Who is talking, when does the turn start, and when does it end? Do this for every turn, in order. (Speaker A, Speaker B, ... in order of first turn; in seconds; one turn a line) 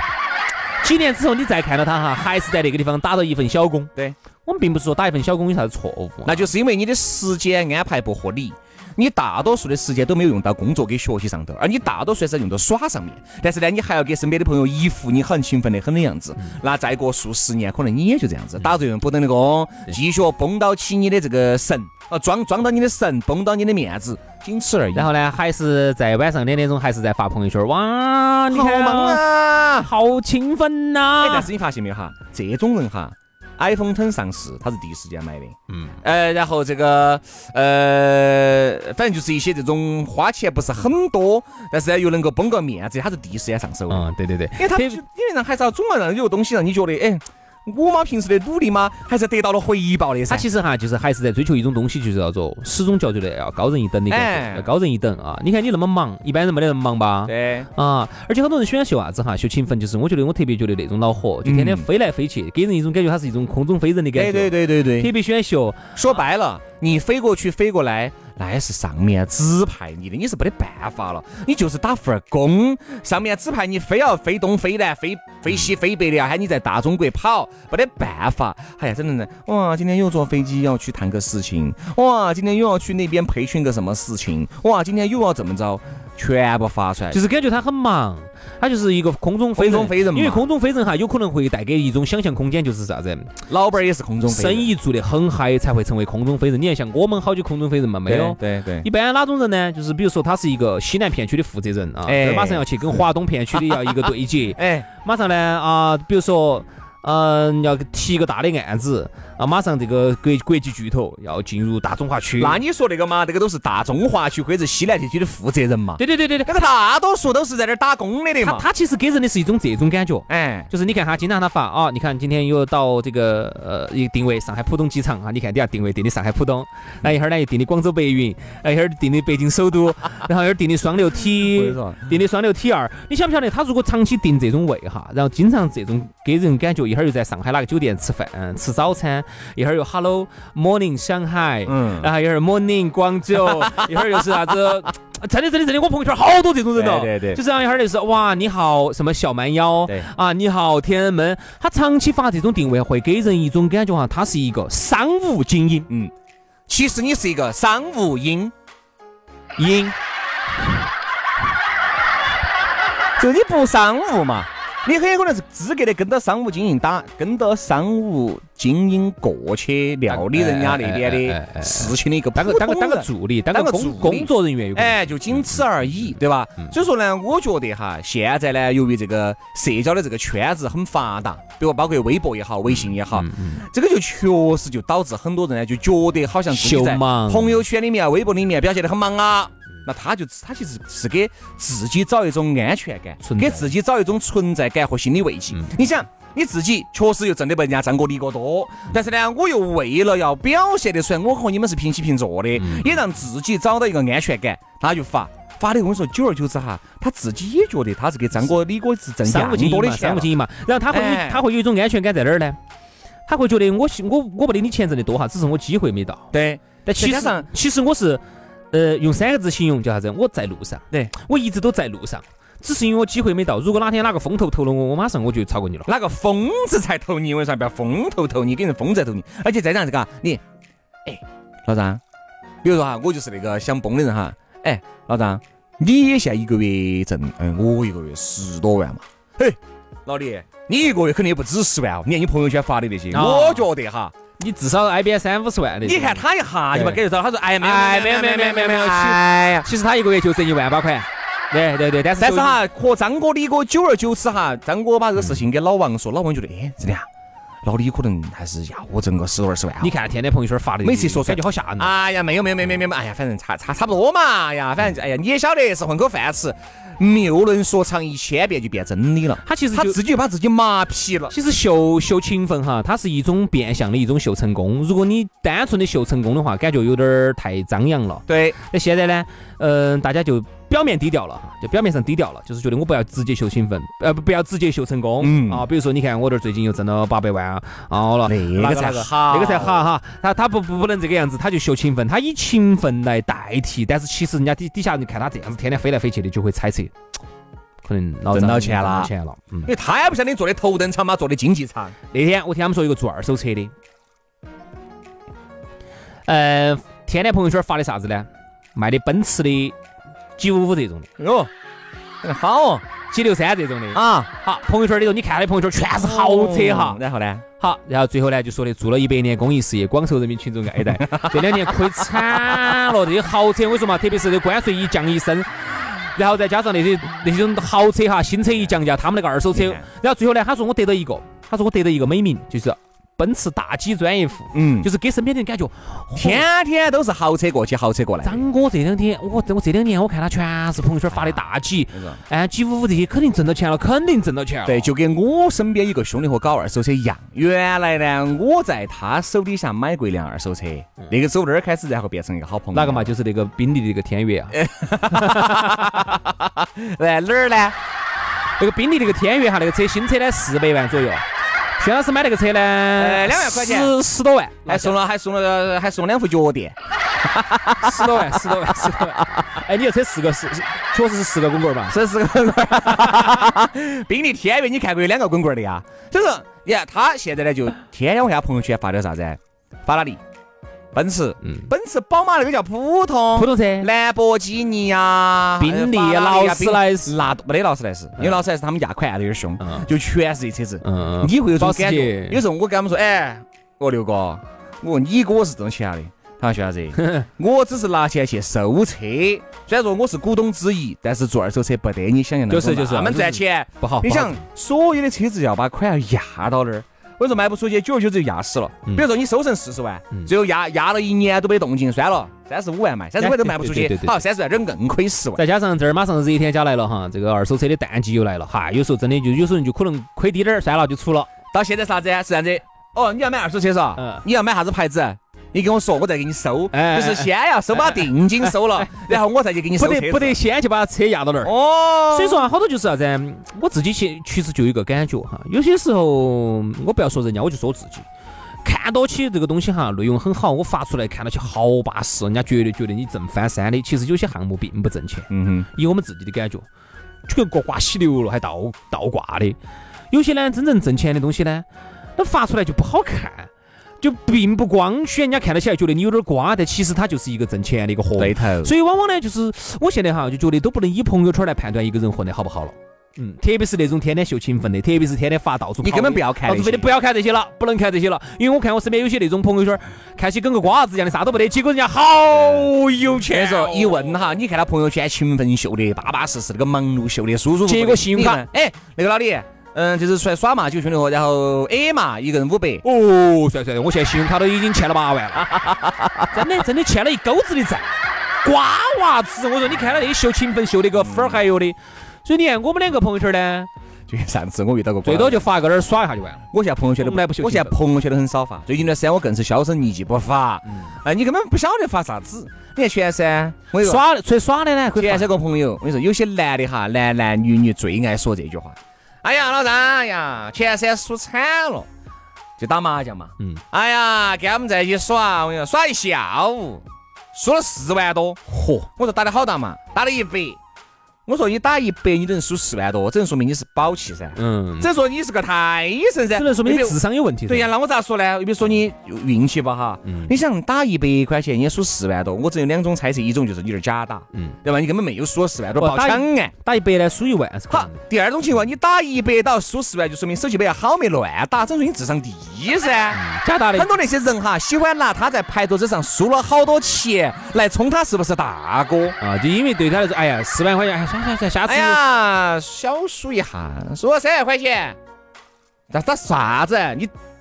Speaker A: 0.8-3.9
Speaker A: 4.5-6.5
Speaker B: 6.2-25.1
Speaker A: 24.9-29.2
Speaker B: 28.5-29.9
Speaker A: 29.8-31.5
Speaker B: 31.2-50.5
Speaker A: 35.7-36.0
Speaker A: 43.9-45.0
Speaker A: 50.3-66.0
Speaker B: 54.1-54.7
Speaker B: 57.3-57.7
Speaker B: 61.5-61.9
Speaker B: 64.2-65.1
Speaker B: 66.0-87.2
Speaker A: 87.1-93.3
Speaker B: 89.5-90.5
Speaker B: 93.5-94.7
Speaker A: 94.3-112.6
Speaker B: 98.1-98.9
Speaker B: 102.1-102.7
Speaker B: 104.5-104.9
Speaker B: 112.4-118.7
Speaker A: 116.0-116.5
Speaker A: 118.4-155.9
Speaker B: 120.3-120.7
Speaker B: 131.5-132.2
Speaker B: 141.7-142.1
Speaker B: 143.6-144.2
Speaker B: 146.7-147.4
Speaker B: 156.7-158.5
Speaker A: 159.6-159.9
Speaker B: 163.2-210.3
Speaker A: 170.1-176.1
Speaker A: 182.7-183.6
Speaker A: 186.5-187.6
Speaker A: 193.2-193.7
Speaker A: 202.6-203.0
Speaker A: 209.2-212.6
Speaker B: 210.9-211.4
Speaker A: 213.3-216.3
Speaker B: 216.3-217.5
Speaker A: 216.8-225.9
Speaker B: 225.9-230.4
Speaker B: 231.1-232.0
Speaker B: 232.6-244.1
Speaker A: 243.1-243.7
Speaker A: 244.4-247.0
Speaker B: 245.8-249.7
Speaker A: 247.6-252.6
Speaker B: 252.2-257.1
Speaker B: 257.6-260.0
Speaker A: 259.8-261.9
Speaker B: 260.8-271.4
Speaker A: 269.4-270.0
Speaker A: 271.3-296.9
Speaker B: 278.3-278.6
Speaker B: 285.2-285.7
Speaker B: 288.2-289.9
Speaker A: 297.8-299.7
Speaker B: 298.3-299.1
Speaker B: 299.7-301.9
Speaker A: 302.1-303.7
Speaker A: 306.3-309.8
Speaker A: 310.4-311.1
Speaker B: 311.2-311.5
Speaker B: 312.2-312.9
Speaker A: 313.1-317.0
Speaker B: 313.9-314.3
Speaker B: 315.9-317.4
Speaker A: 317.6-336.4
Speaker B: 321.0-322.2
Speaker B: 329.5-329.9
Speaker B: 334.5-334.9
Speaker B: 336.1-338.4
Speaker A: 338.2-344.9
Speaker B: 341.1-342.2
Speaker B: 344.7-353.1
Speaker A: 352.7-356.0
Speaker B: 354.5-357.8
Speaker A: 358.6-361.2
Speaker A: 361.8-365.0
Speaker B: 363.0-363.9
Speaker B: 364.7-366.8
Speaker B: 367.3-369.3
Speaker A: 367.8-371.9
Speaker B: 371.9-380.2
Speaker B: 380.9-415.4
Speaker A: 381.4-381.7
Speaker A: 383.4-383.9
Speaker A: 385.6-387.1
Speaker A: 388.2-388.4
Speaker A: 389.6-389.9
Speaker A: 390.8-392.4
Speaker A: 397.0-397.3
Speaker A: 402.5-404.4
Speaker A: 413.2-414.2
Speaker A: 415.4-421.3
Speaker B: 421.5-430.4
Speaker A: 424.0-424.2
Speaker A: 426.7-429.1
Speaker A: 429.8-431.5
Speaker B: 431.4-432.5
Speaker A: 432.1-438.1
Speaker A: 438.6-446.7
Speaker B: 445.3-445.7
Speaker A: 447.3-449.6
Speaker A: 450.1-451.7
Speaker A: 452.2-453.5
Speaker A: 454.0-474.1
Speaker B: 458.2-458.7
Speaker B: 465.8-466.9
Speaker B: 472.4-482.9
Speaker A: 477.7-478.4
Speaker A: 482.8-485.6
Speaker B: 485.6-486.1
Speaker A: 486.3-487.9
Speaker A: 488.4-493.7
Speaker B: 491.0-491.4
Speaker B: 494.1-495.5
Speaker A: 495.0-496.4
Speaker B: 496.5-504.1
Speaker A: 497.0-497.7
Speaker A: 503.8-505.3
Speaker B: 505.0-511.9
Speaker B: 512.6-520.6
Speaker A: 518.5-518.9
Speaker B: 521.3-536.5
Speaker A: 524.4-524.9
Speaker A: 526.3-527.7
Speaker A: 530.0-530.3
Speaker A: 535.8-538.0
Speaker B: 537.7-543.2
Speaker A: 543.1-543.9
Speaker B: 543.7-549.2
Speaker A: 549.2-552.0
Speaker B: 551.7-555.0
Speaker B: 555.9-557.1